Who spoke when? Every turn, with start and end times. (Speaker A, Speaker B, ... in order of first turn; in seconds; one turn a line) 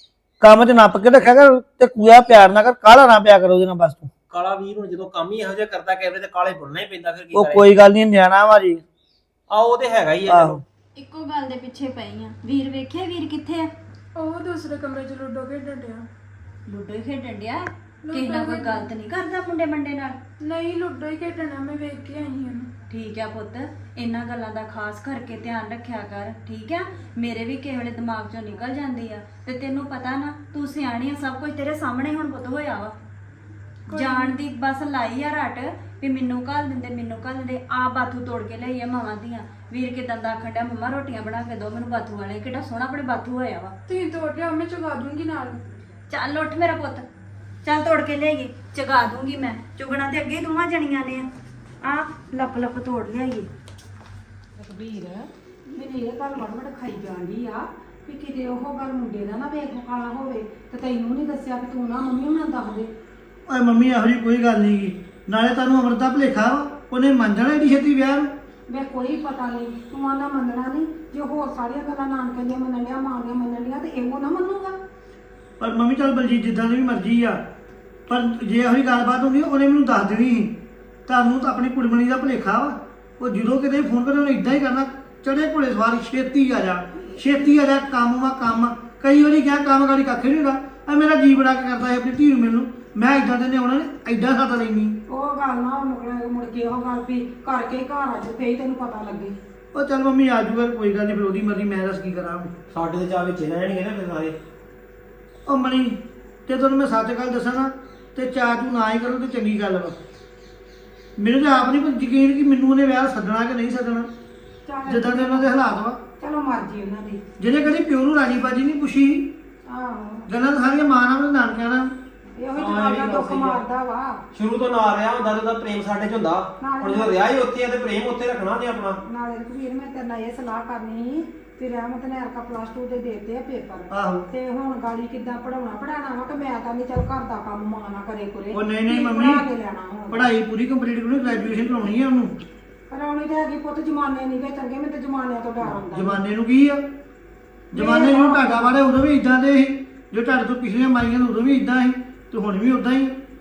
Speaker A: 0.4-4.1
Speaker B: 4.3-7.7
Speaker A: 7.3-8.8
Speaker B: 9.5-10.6
Speaker A: 10.3-10.6
Speaker C: 10.9-13.7
Speaker D: 14.2-16.1
Speaker C: 16.7-20.2
Speaker D: 18.0-18.9
Speaker D: 20.4-22.7
Speaker C: 22.9-33.0
Speaker D: 33.9-34.4
Speaker C: 33.9-43.8
Speaker D: 43.9-45.6
Speaker C: 46.1-47.1
Speaker C: 47.6-51.3
Speaker C: 51.8-53.5
Speaker E: 54.6-62.9
Speaker A: 63.5-68.3
Speaker E: 68.7-74.8
Speaker A: 75.6-77.4
Speaker A: 78.1-95.0
Speaker E: 95.1-99.4
Speaker A: 99.7-102.5
Speaker B: 102.7-104.4
Speaker A: 105.5-110.0
Speaker A: 111.2-114.1
Speaker E: 114.7-115.5
Speaker A: 114.9-116.0
Speaker E: 116.2-117.2
Speaker A: 117.4-119.3
Speaker E: 119.7-120.3
Speaker A: 120.3-121.9
Speaker E: 122.3-124.2
Speaker B: 122.6-123.6
Speaker B: 124.3-129.0
Speaker E: 126.6-127.2
Speaker E: 129.1-140.3
Speaker A: 133.9-134.3
Speaker A: 138.5-139.5
Speaker A: 140.1-142.3
Speaker E: 142.9-146.2
Speaker A: 145.9-146.8
Speaker A: 147.7-153.2
Speaker E: 147.7-148.8